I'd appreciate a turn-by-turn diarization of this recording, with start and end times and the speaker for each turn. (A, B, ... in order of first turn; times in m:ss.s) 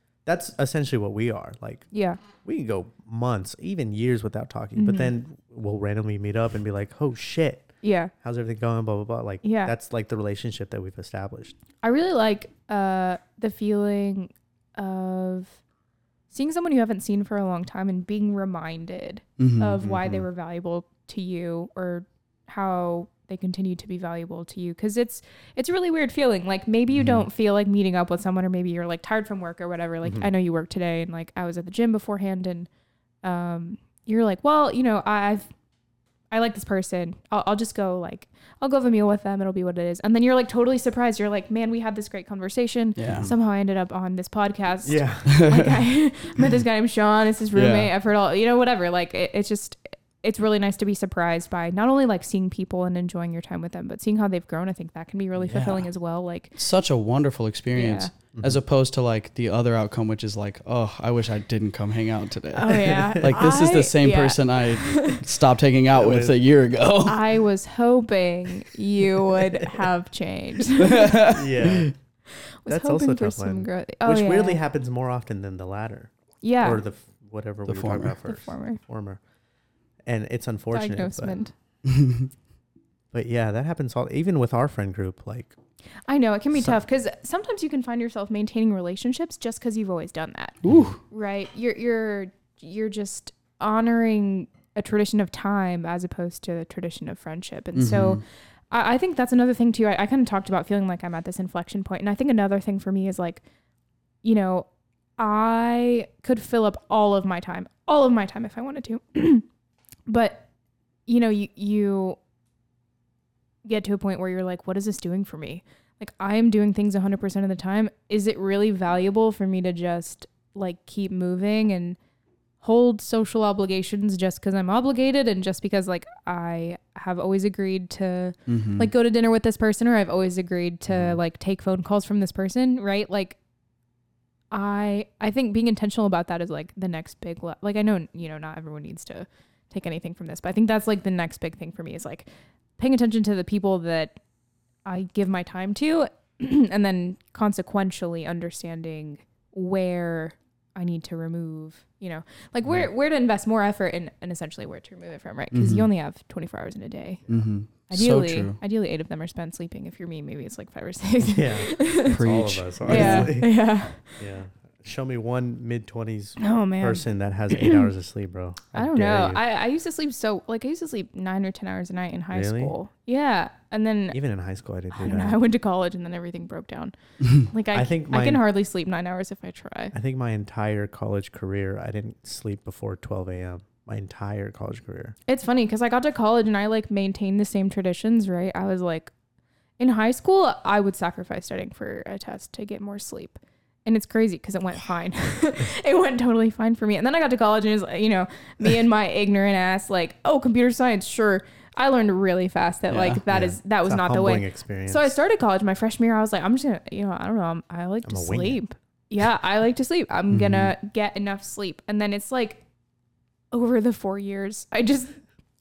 0:00.2-0:01.9 A
0:01.9-0:02.2 B
0:02.4-0:07.7 A
0:04.8-0:05.1 B
0:07.8-0:08.1 B
0:08.2-0:11.6 A
0:09.4-0:09.7 B
0:11.8-0:15.6 B
0:16.3-0:32.7 B
0:19.4-0:19.8 C
0:19.8-0:20.3 A
0:33.2-0:35.5 B
0:36.3-0:56.6 B
0:43.0-0:43.3 C
0:44.8-0:45.3 A
0:45.3-0:45.7 C
0:47.6-0:47.9 C
0:55.4-0:55.9 C
0:56.6-1:07.3 C
0:57.8-0:58.1 B
0:58.3-0:58.6 A
1:02.5-1:05.2 B
1:02.9-1:03.5 A
1:05.9-1:06.4 A
1:07.0-1:11.4 B
1:10.8-1:11.8 C
1:11.1-1:11.9 A
1:12.6-1:14.6 B
1:12.7-1:16.1 A
1:16.4-1:16.8 B
1:16.6-1:19.2 A
1:17.7-1:18.2 C
1:18.2-1:18.8 B
1:20.0-1:21.4 A
1:20.7-1:21.5 B
1:21.8-1:22.3 C
1:23.1-1:25.6 A
1:26.1-1:43.4 B
1:30.6-1:31.0 C
1:37.8-1:38.2 C
1:44.2-1:44.7 B
1:45.2-1:49.5 B
1:50.1-1:50.5 B
1:51.1-1:52.2 B
1:53.6-2:02.0 B
2:02.6-2:13.4 B
2:08.5-2:08.9 C
2:14.5-2:24.2 B
2:24.8-2:37.2 B
2:35.5-2:35.9 C
2:37.3-2:38.6 C
2:37.9-2:42.2 B
2:41.2-2:43.5 A
2:42.1-2:43.4 C
2:42.9-2:44.2 B
2:44.2-2:49.4 A
2:46.4-2:47.9 B
2:48.7-2:54.2 B
2:52.3-2:52.7 A
2:54.1-2:55.4 A
2:54.9-3:00.0 B
2:57.7-2:58.4 A
2:59.9-3:05.2 A
3:05.3-3:09.1 B
3:09.8-3:32.6 B
3:22.9-3:23.2 C
3:23.3-3:25.1 A
3:28.0-3:28.6 A
3:30.3-3:30.7 C
3:33.5-3:35.1 B